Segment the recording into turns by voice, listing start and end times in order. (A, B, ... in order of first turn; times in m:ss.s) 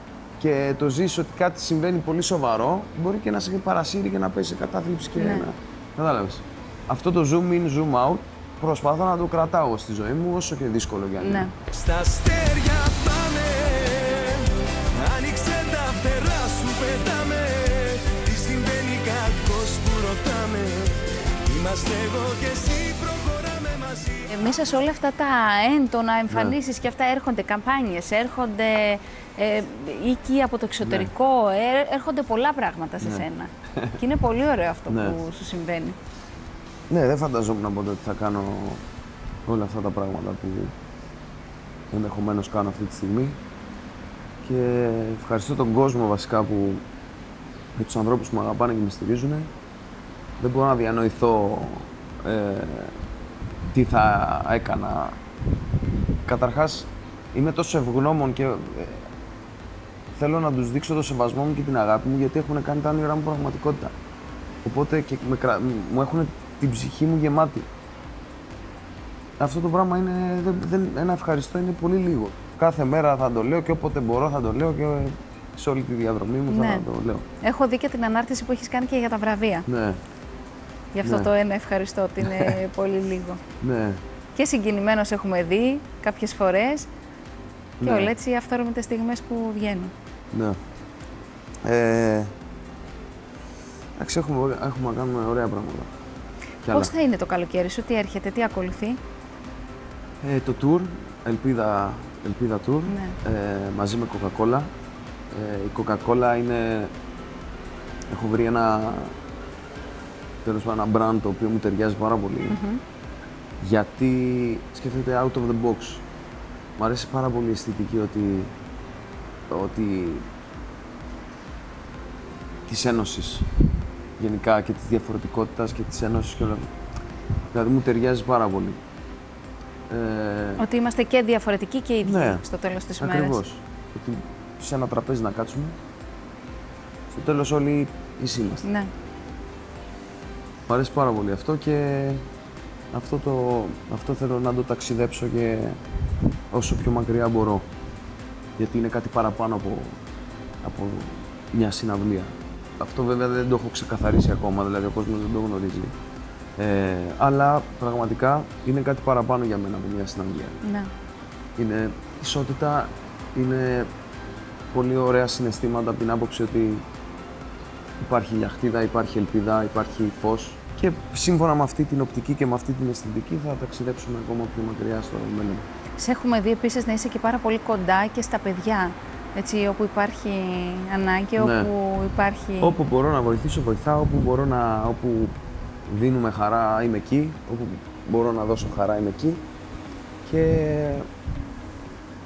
0:00.4-0:11.5 A
0:05.2-0:05.5 B
0:11.2-0:11.5 B
0:11.7-0:24.5 C
0:24.3-0:36.0 B
0:30.8-0:31.1 A
0:33.0-0:33.2 A
0:34.9-0:35.2 A
0:36.9-0:38.8 A
0:39.4-0:40.7 A
0:41.9-0:43.4 A
0:44.4-0:46.8 A
0:47.8-0:49.5 A
0:50.4-0:52.9 A
0:53.7-0:55.2 A
0:56.2-0:59.1 A
1:00.1-1:03.9 A
1:04.6-1:07.7 A
1:09.4-1:17.2 A
1:16.5-1:16.8 B
1:17.4-1:19.6 B
1:19.7-1:20.0 A
1:20.9-1:23.4 B
1:21.0-1:21.3 A
1:22.2-1:22.6 A
1:23.6-1:24.0 A
1:24.4-1:26.9 B
1:27.8-1:28.1 A
1:27.8-1:29.9 B
1:30.3-1:30.6 A
1:31.6-1:32.3 A
1:34.0-1:35.9 A
1:36.6-1:36.9 A
1:36.7-1:39.0 B
1:40.2-1:44.7 A
1:42.9-1:43.2 B
1:45.3-1:46.9 A
1:48.1-1:49.2 A
1:50.4-1:52.6 A
1:52.5-1:52.8 B
1:53.6-1:56.0 A
1:56.8-1:58.5 A
1:59.5-2:00.2 A
2:02.6-2:03.5 A
2:04.2-2:06.7 A
2:07.5-2:08.8 A
2:09.9-2:10.6 A
2:10.6-2:13.4 B
2:12.0-2:12.4 A
2:13.0-2:15.8 A
2:17.1-2:18.6 A
2:18.6-2:18.9 B
2:20.7-2:22.2 A
2:22.9-2:25.8 A
2:26.5-2:27.7 A
2:28.6-2:30.0 A
2:30.6-2:35.9 A
2:36.6-2:40.6 A
2:40.6-2:40.9 B
2:41.6-2:43.9 A
2:44.7-2:46.8 A
2:48.0-2:55.6 A
2:56.0-3:02.7 B
3:01.4-3:01.7 A
3:02.6-3:09.4 A
3:10.2-3:11.1 A